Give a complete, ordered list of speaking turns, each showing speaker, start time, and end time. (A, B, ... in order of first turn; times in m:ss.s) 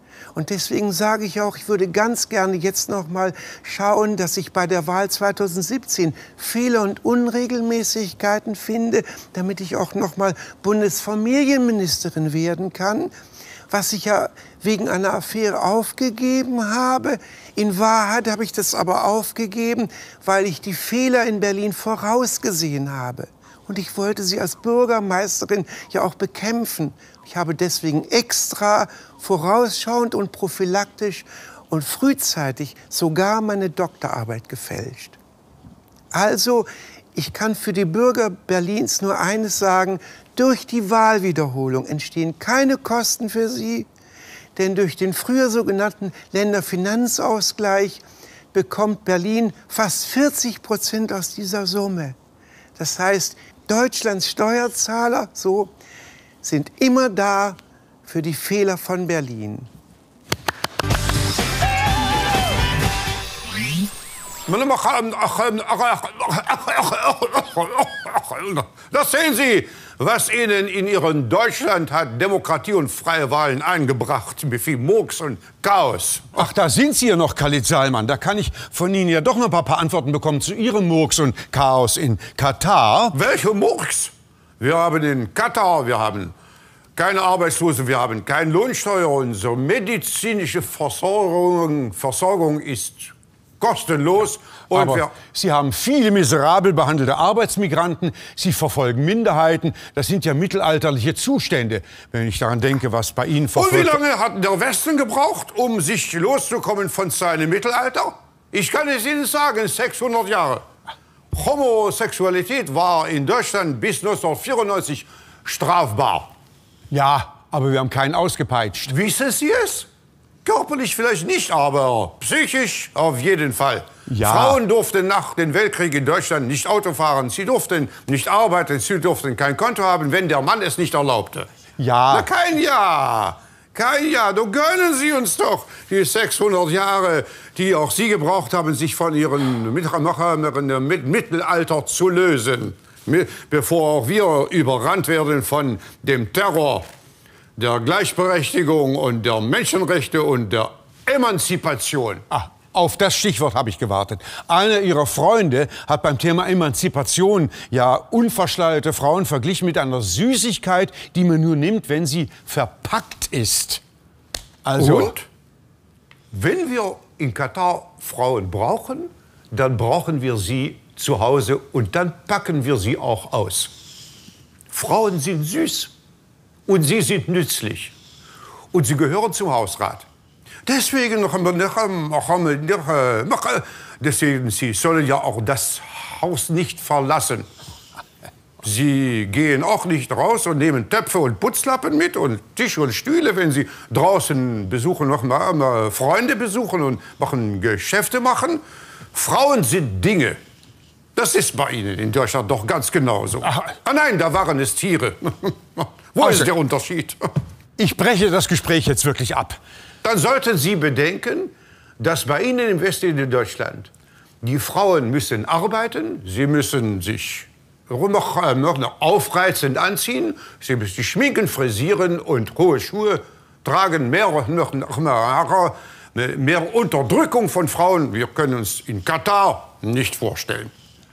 0:00.3-0:13.1 A
0:13.7-0:35.2 A
0:36.1-0:43.9 A
0:44.6-0:52.2 A
0:52.8-0:55.7 A
0:56.4-0:59.7 A
1:04.5-1:16.4 B
1:16.4-1:23.2 C
1:23.1-1:26.3 B
1:27.0-1:35.1 B
1:34.7-1:44.0 C
1:43.5-1:50.6 B
1:51.3-1:56.3 B
1:56.9-1:58.9 C
1:58.9-1:59.9 B
2:00.4-2:11.5 B
2:04.1-2:04.6 C
2:11.8-2:12.3 C
2:12.1-2:26.8 B
2:27.6-2:32.3 B
2:32.3-2:43.8 C
2:44.7-2:45.2 C
2:44.7-2:45.3 B
2:46.3-2:53.7 B
2:47.8-2:48.1 C
2:50.5-2:52.4 C
2:54.7-2:55.9 B
2:56.7-2:57.9 B
2:58.7-3:00.0 B
3:00.6-3:07.5 B
3:08.6-3:18.6 B
3:19.1-3:20.4 B
3:21.2-3:27.2 B
3:26.2-3:26.5 C
3:27.8-3:29.6 C
3:30.0-3:33.9 B
3:34.4-3:50.7 B